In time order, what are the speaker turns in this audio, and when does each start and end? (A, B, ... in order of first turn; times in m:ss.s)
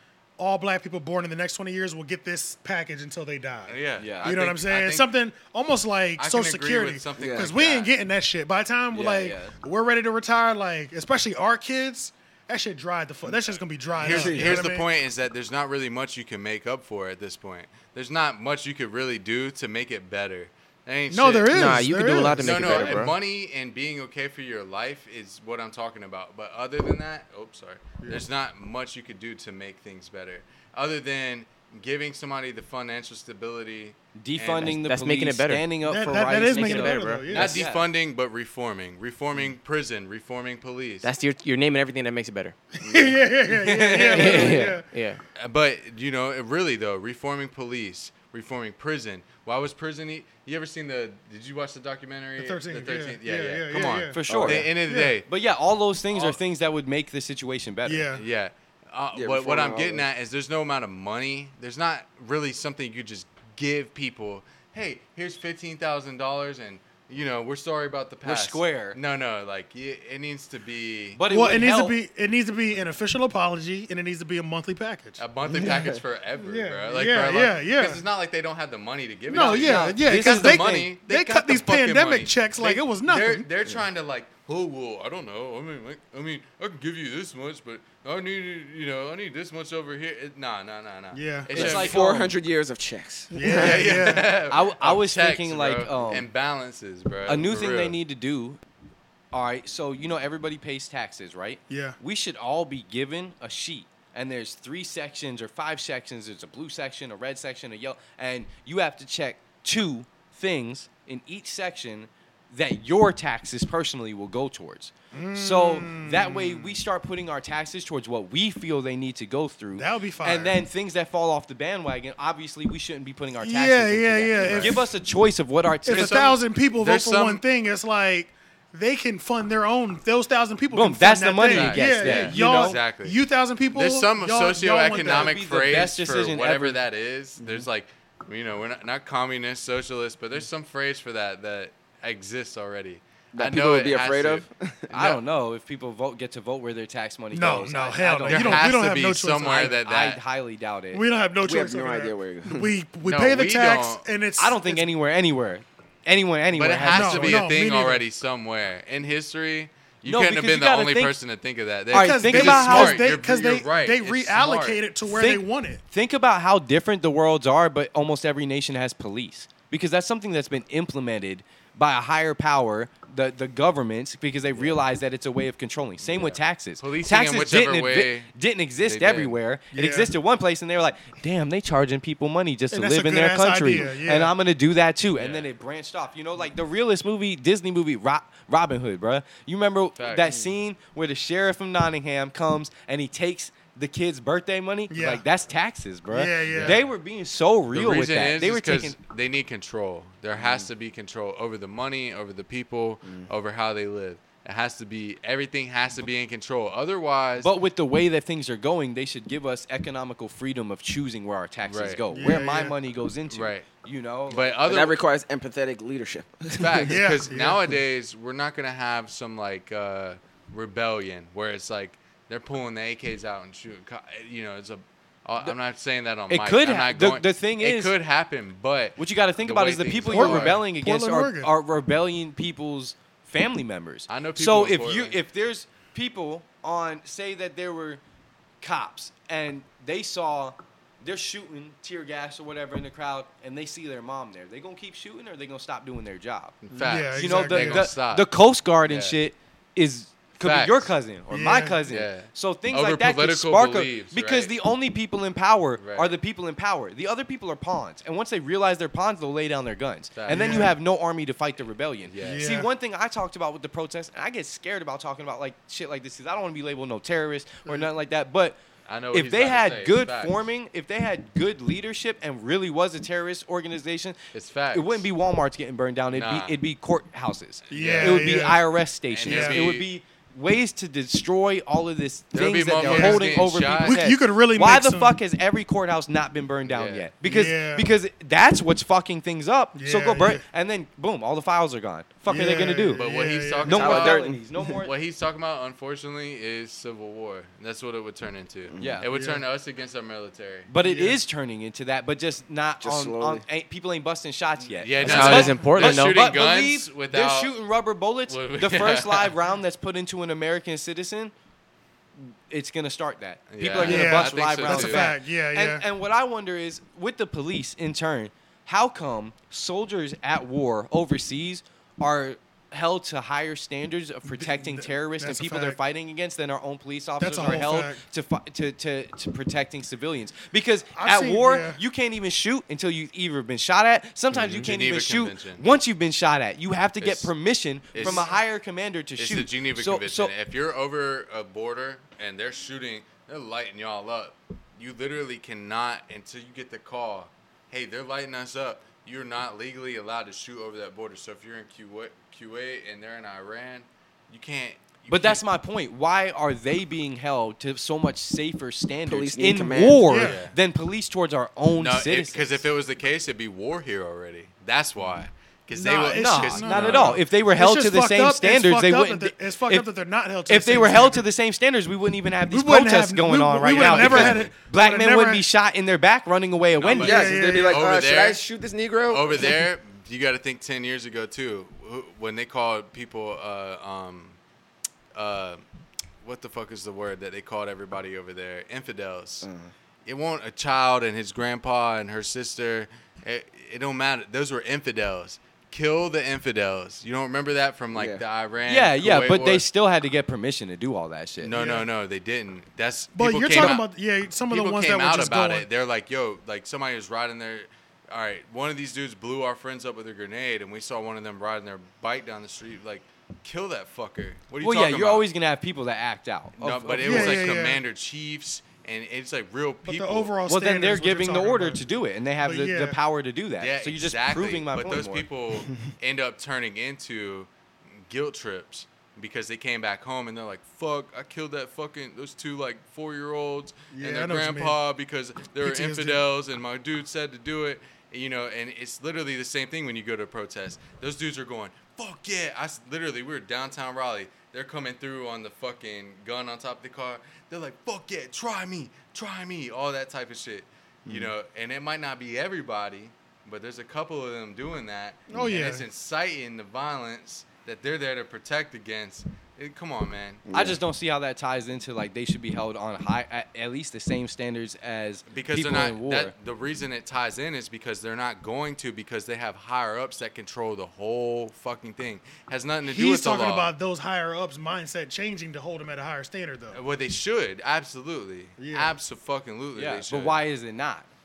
0:00.4-0:14.9 A
0:03.7-0:05.1 B
0:04.0-0:04.3 C
0:06.2-0:07.9 B
0:07.2-0:07.5 D
0:08.9-0:09.6 C
0:14.0-0:21.8 B
0:14.0-0:14.6 D
0:21.1-0:23.1 A
0:21.5-0:23.1 E
0:22.4-0:34.8 B
0:34.2-0:37.9 C
0:34.7-0:35.7 E
0:35.8-0:37.6 A
0:36.2-0:37.4 E
0:37.3-0:41.1 B
0:41.0-0:42.6 E
0:42.8-0:44.9 A
0:43.6-0:44.6 C
0:43.9-0:45.2 E
0:45.4-0:55.3 B
0:52.4-0:54.2 A
0:54.1-0:54.7 C
0:54.3-0:54.6 D
0:54.8-0:55.2 A
0:55.3-0:58.1 C
0:56.1-0:56.4 B
0:57.8-0:58.2 A
0:58.2-1:11.2 B
0:59.1-1:00.1 D
1:08.2-1:09.0 C
1:11.2-1:12.0 C
1:11.3-1:15.8 A
1:15.2-1:32.0 B
1:15.5-1:16.0 D
1:16.4-1:18.0 A
1:19.3-1:23.5 A
1:19.3-1:20.9 C
1:31.1-1:31.5 A
1:31.5-1:32.4 C
1:31.6-1:34.0 D
1:33.3-1:34.3 A
1:33.4-1:38.0 B
1:34.5-1:36.3 C
1:37.3-1:38.6 C
1:39.3-2:06.4 C
1:41.7-1:42.0 A
1:55.1-1:56.8 A
1:59.8-2:00.6 A
2:03.4-2:04.9 A
2:04.3-2:04.8 B
2:05.9-2:15.4 A
2:05.9-2:07.4 B
2:10.7-2:12.8 C
2:11.5-2:25.2 B
2:15.1-2:16.8 C
2:23.3-2:24.9 D
2:24.9-2:28.7 C
2:27.3-2:29.8 A
2:28.3-2:30.2 B
2:29.8-2:31.0 C
2:30.9-2:34.9 A
2:31.4-2:32.7 D
2:33.0-2:34.0 B
2:34.4-2:37.5 C
2:36.5-2:44.8 B
2:36.9-2:38.0 A
2:40.1-2:41.1 C
2:41.9-2:43.1 C
2:41.9-2:45.8 A
2:45.0-3:19.0 C
2:56.8-2:58.3 B
2:58.8-2:59.4 B
2:59.7-3:00.1 A
3:02.7-3:04.3 A
3:05.2-3:05.5 B
3:10.0-3:10.4 B
3:14.9-3:15.2 A
3:16.1-3:16.8 A
3:16.4-3:16.9 B
3:17.7-3:27.5 B
3:20.4-3:20.7 D
3:27.4-3:34.4 C
3:31.7-3:32.0 B
3:32.1-3:32.8 A
3:33.3-3:33.7 B
3:34.3-3:35.0 B
3:34.4-3:37.0 D
3:36.5-3:50.6 B
3:36.9-3:37.7 A
3:46.3-3:47.9 C
3:49.0-3:58.0 C
3:50.1-3:51.5 A
3:54.1-3:55.2 B
3:58.6-4:06.6 C
4:06.6-4:08.3 B
4:06.7-4:07.9 A
4:07.2-4:28.6 C
4:08.8-4:09.2 B
4:10.4-4:10.9 B
4:11.3-4:11.8 A
4:11.9-4:14.6 B
4:15.8-4:16.1 B
4:20.2-4:20.7 B
4:20.3-4:20.7 A
4:22.1-4:22.6 B
4:22.2-4:22.7 A
4:28.9-4:30.4 B
4:29.1-4:34.2 C
4:34.3-4:35.1 B
4:34.7-4:53.0 C
4:36.1-4:36.6 B
4:37.7-4:38.3 B
4:37.7-4:38.6 A
4:39.1-4:39.9 B
4:39.2-4:39.6 A
4:42.3-4:44.0 B
4:42.8-4:45.2 A
4:46.7-4:47.1 B
4:47.2-4:47.9 A
4:49.7-4:50.4 A
4:52.3-4:54.2 A
4:53.0-5:00.7 B
4:53.6-4:54.9 C
4:53.8-4:54.8 D
4:58.7-4:59.0 D
4:58.8-4:59.0 C
4:59.1-4:59.4 A
5:00.7-5:11.3 C
5:00.8-5:01.2 A
5:02.8-5:03.4 D
5:04.8-5:07.6 B
5:05.0-5:06.2 E
5:08.3-5:09.3 B
5:12.2-5:40.3 C
5:13.5-5:15.2 B
5:13.8-5:15.8 A
5:24.3-5:25.8 A
5:27.2-5:28.0 A
5:31.0-5:31.8 A
5:34.3-5:35.7 B
5:37.0-5:37.3 B
5:37.9-5:38.3 B
5:38.0-5:38.4 A
5:39.2-5:55.4 B
5:55.1-6:02.6 C
5:59.1-6:00.0 D
6:00.1-6:00.4 A
6:00.2-6:00.6 B
6:01.8-6:07.2 B
6:05.8-6:11.2 A
6:06.0-6:09.9 C
6:10.5-6:17.6 C
6:12.5-6:15.4 A
6:13.8-6:14.5 B
6:16.8-6:18.4 B
6:17.0-6:19.6 D
6:17.0-6:18.0 A
6:19.1-6:24.4 B
6:25.1-6:25.6 B
6:26.2-6:29.5 B
6:29.4-6:29.7 D
6:30.1-6:39.6 B
6:37.9-6:38.2 D
6:38.7-6:41.5 C
6:41.4-6:43.9 B
6:41.5-6:41.9 A
6:43.2-6:45.7 A
6:43.6-6:43.8 C
6:44.5-6:55.3 B
6:54.6-6:57.5 C
6:56.6-7:00.3 B
6:57.0-6:57.8 A
6:59.9-7:01.8 A
7:00.5-7:05.3 C
7:02.4-7:03.0 A
7:03.6-7:07.5 B
7:08.1-7:40.4 B
7:13.9-7:14.8 A
7:15.6-7:16.2 A
7:35.3-7:35.8 A
7:40.5-7:40.8 D
7:40.5-7:46.3 C
7:45.3-7:53.7 B
7:52.9-7:56.8 A
7:56.7-8:00.4 B
7:58.6-7:59.0 A
7:59.8-8:01.1 C